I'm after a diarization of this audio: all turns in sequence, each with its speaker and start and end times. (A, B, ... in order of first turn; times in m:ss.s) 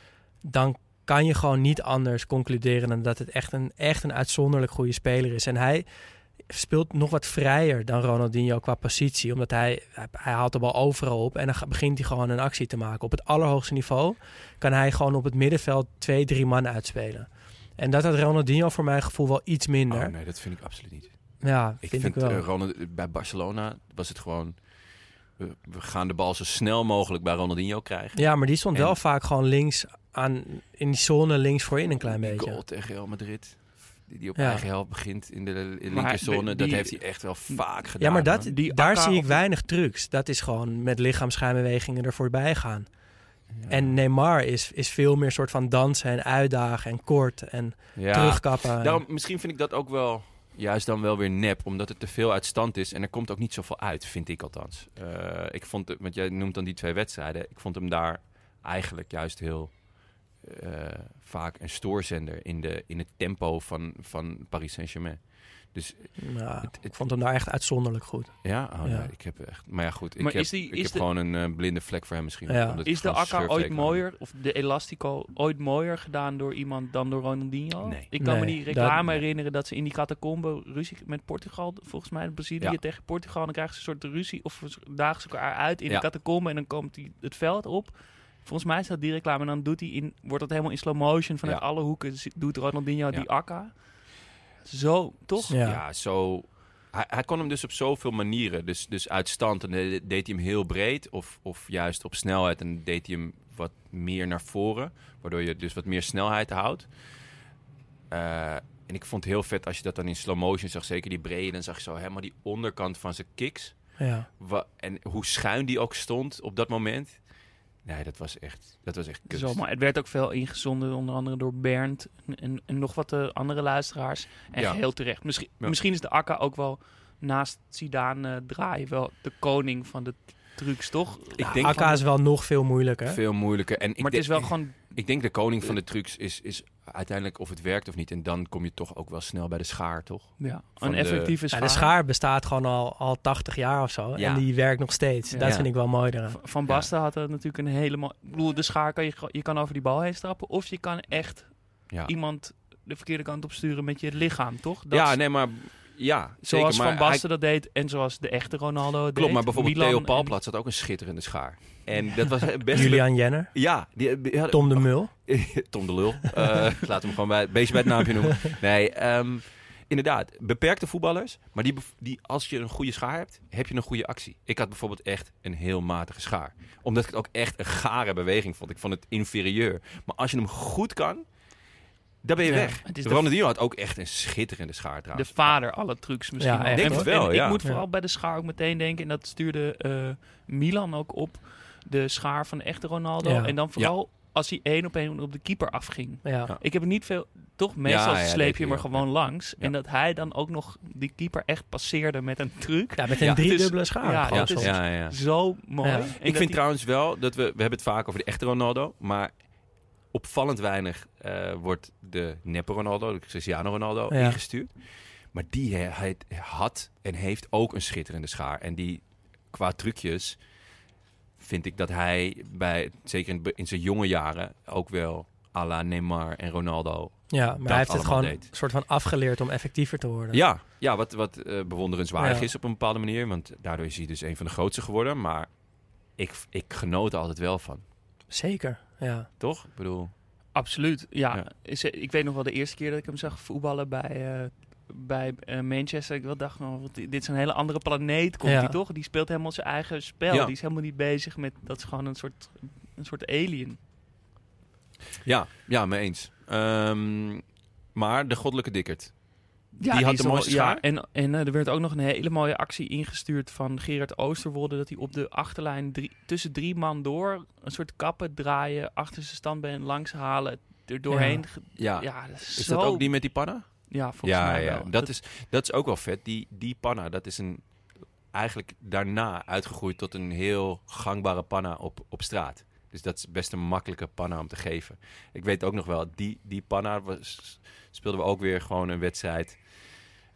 0:00.4-0:05.8 A
0:06.4-0:20.1 A
0:19.9-0:21.2 B
0:21.4-0:22.4 A
0:21.7-0:24.6 B
0:25.4-0:29.0 B
0:28.2-0:32.6 A
0:32.0-0:38.5 B
0:34.4-0:34.6 A
0:35.9-0:37.6 C
0:38.0-0:43.1 A
0:38.3-0:39.4 C
0:43.5-0:44.0 B
0:43.7-0:49.0 A
0:47.9-1:07.0 B
1:06.2-1:09.1 A
1:08.4-1:14.0 B
1:10.2-1:11.0 C
1:12.5-1:12.8 A
1:12.8-1:35.6 C
1:17.8-1:18.1 B
1:18.2-1:19.0 A
1:35.4-1:47.2 B
1:35.5-1:35.8 A
1:48.1-1:59.6 B
1:54.0-1:54.3 A
1:59.3-2:12.0 C
2:04.6-2:05.8 B
2:11.4-2:12.1 B
2:11.5-2:13.2 A
2:13.0-2:21.4 B
2:14.0-2:15.0 C
2:20.4-2:21.9 C
2:21.5-2:26.4 A
2:24.2-2:26.0 B
2:25.3-2:35.2 C
2:34.9-2:37.2 B
2:36.4-2:40.4 C
2:39.1-3:01.2 B
2:42.7-2:43.8 A
2:44.5-2:45.1 A
3:02.2-3:05.6 B
3:02.4-3:03.3 C
3:05.1-3:26.6 C
3:06.4-3:07.1 A
3:06.7-3:07.6 B
3:13.2-3:13.5 A
3:16.2-3:16.5 A
3:17.8-3:19.7 B
3:23.0-3:24.9 A
3:23.2-3:25.5 B
3:25.8-3:26.1 A
3:26.2-3:40.4 B
3:34.1-3:34.4 A
3:41.4-3:48.5 B
3:47.3-3:50.4 A
3:50.3-3:57.8 B
3:52.2-3:52.5 A
3:58.3-3:59.3 A
3:59.4-4:00.2 B
4:00.5-4:13.8 C
4:08.4-4:08.8 A
4:15.2-4:20.8 B
4:19.8-4:35.1 C
4:31.1-4:31.4 A
4:31.7-4:50.0 B